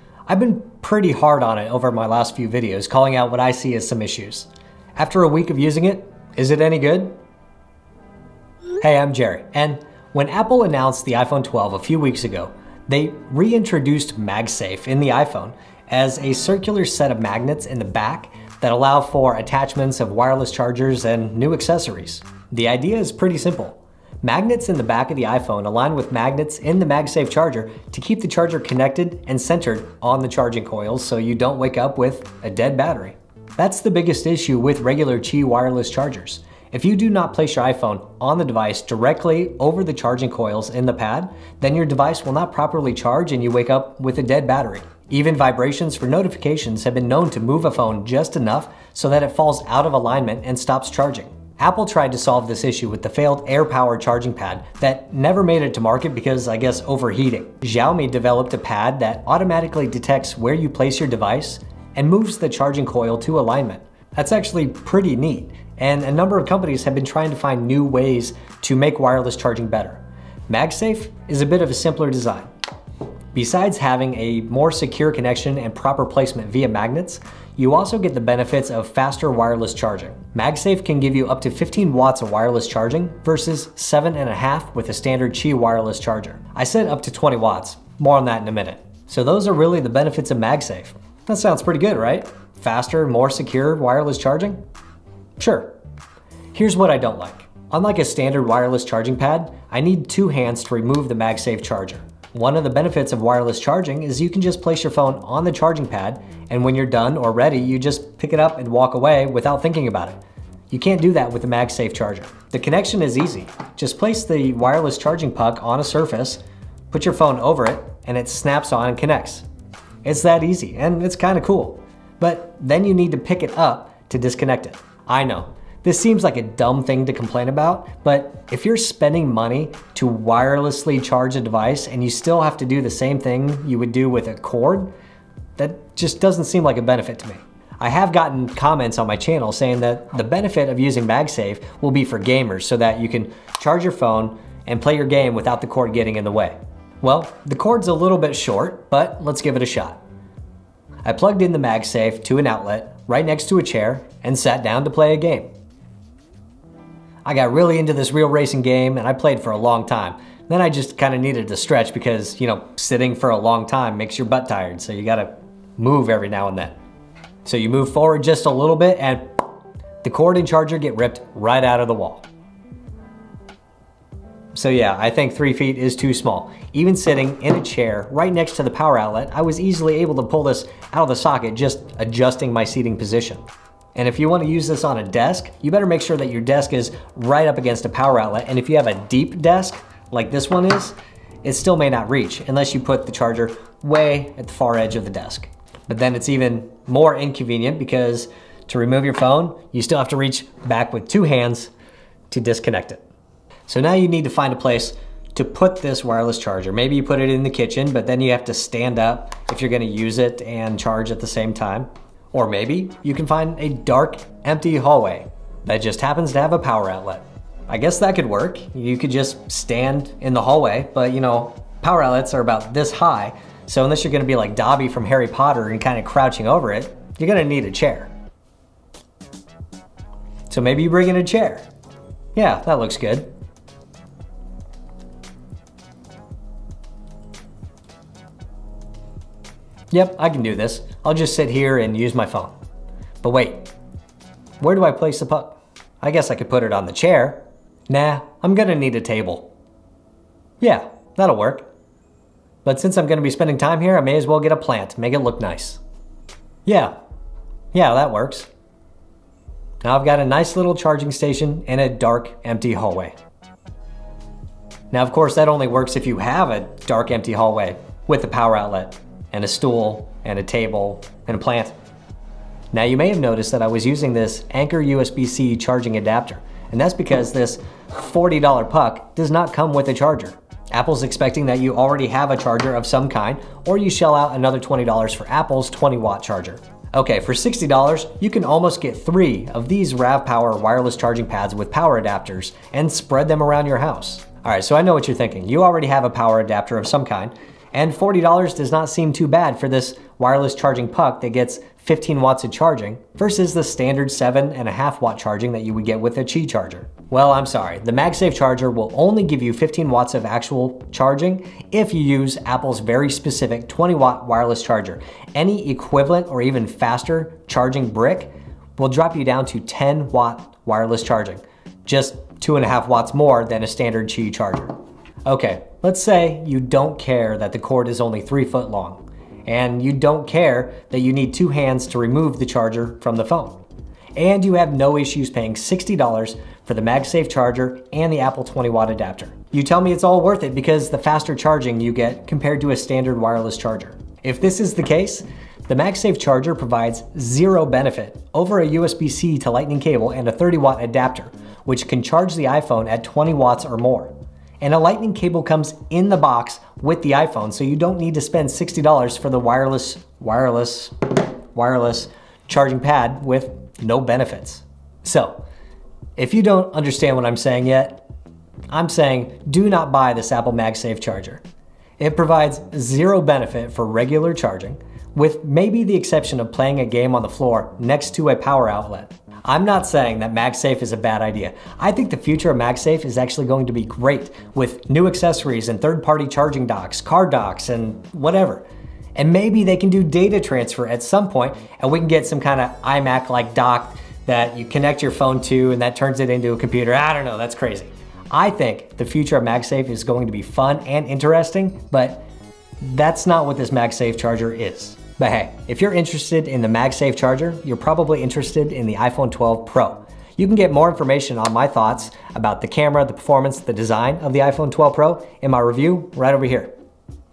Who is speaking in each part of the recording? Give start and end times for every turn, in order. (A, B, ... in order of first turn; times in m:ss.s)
0:00.3-0:07.1 A
0:08.8-1:12.5 A
1:13.3-1:34.6 A
1:35.4-1:35.7 A
1:36.5-1:50.2 A
1:50.7-1:59.4 A
2:00.0-2:14.9 A
2:15.6-2:30.0 A
2:31.0-2:35.5 A
2:37.2-2:46.8 A
2:47.4-2:49.3 A
2:50.0-2:52.2 A
2:54.6-3:03.4 A
3:04.0-3:21.7 A
3:22.3-3:23.0 A
3:23.7-3:48.1 A
3:50.5-3:51.7 A
3:52.4-3:53.3 A
3:59.9-4:02.5 A
4:03.2-4:03.7 A
4:04.6-4:09.5 A
4:10.6-4:11.7 A
4:12.6-4:15.8 A
4:16.7-4:16.9 A
4:17.7-4:18.5 A
4:19.8-4:23.2 A
4:24.9-4:31.7 A
4:32.7-5:24.8 A
5:25.3-5:33.6 A
5:34.2-6:05.4 A
6:06.2-6:08.0 A
6:08.7-6:11.4 A
6:12.0-6:28.6 A
6:29.2-6:42.3 A
6:42.8-6:56.7 A